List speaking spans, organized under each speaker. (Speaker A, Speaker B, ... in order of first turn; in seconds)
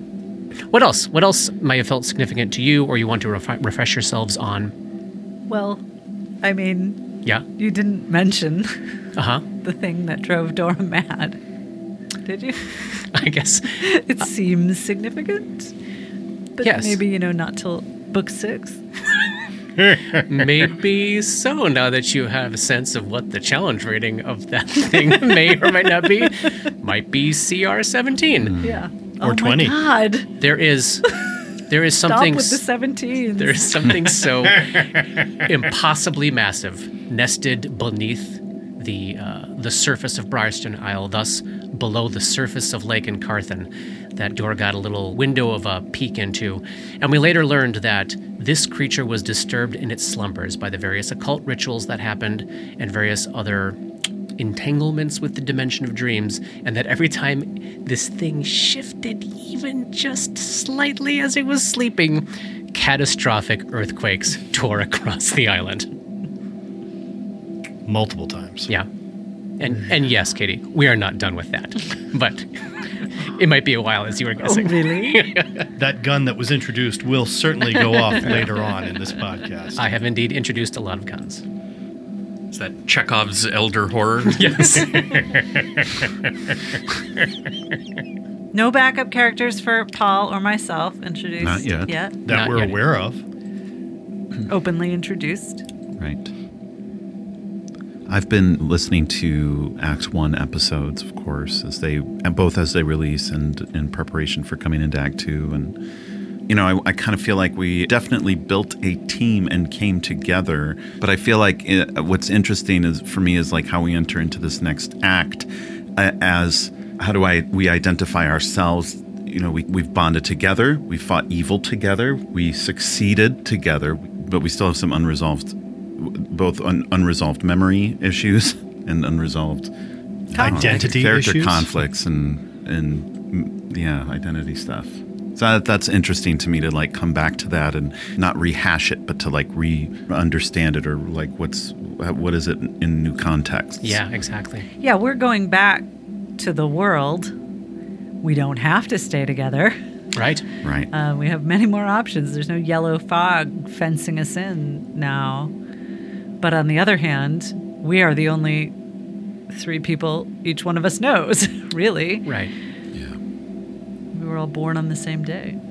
Speaker A: 0.7-4.7, 9.2-9.4, 13.1-13.8, 16.6-17.0, 20.2-28.6, 30.4-31.1, 31.7-32.6, 33.4-53.8, 54.4-65.9, 69.6-72.6, 73.2-75.7, 78.2-78.5, 79.8-81.4, 84.3-85.3, 92.3-92.8, 143.8-144.7, 150.2-150.5, 162.3-162.5
Speaker B: 5.5-5.8, 6.4-7.0, 7.6-8.8, 9.6-11.4, 12.2-12.6, 13.8-15.7, 16.6-18.8, 28.6-30.3, 32.0-34.0, 74.4-75.2, 88.5-92.2, 94.5-95.7, 130.4-130.7, 144.8-145.9, 146.4-147.3, 148.2-149.8, 150.9-155.5, 156.4-158.7, 159.5-162.3, 164.1-165.6
Speaker C: 29.2-29.8, 67.9-68.7, 75.8-79.8, 92.2-93.2, 130.4-131.7
Speaker D: 82.5-84.9
Speaker E: 91.4-91.9, 96.0-96.3, 98.1-105.8, 106.5-129.7, 130.3-144.0, 150.6-150.9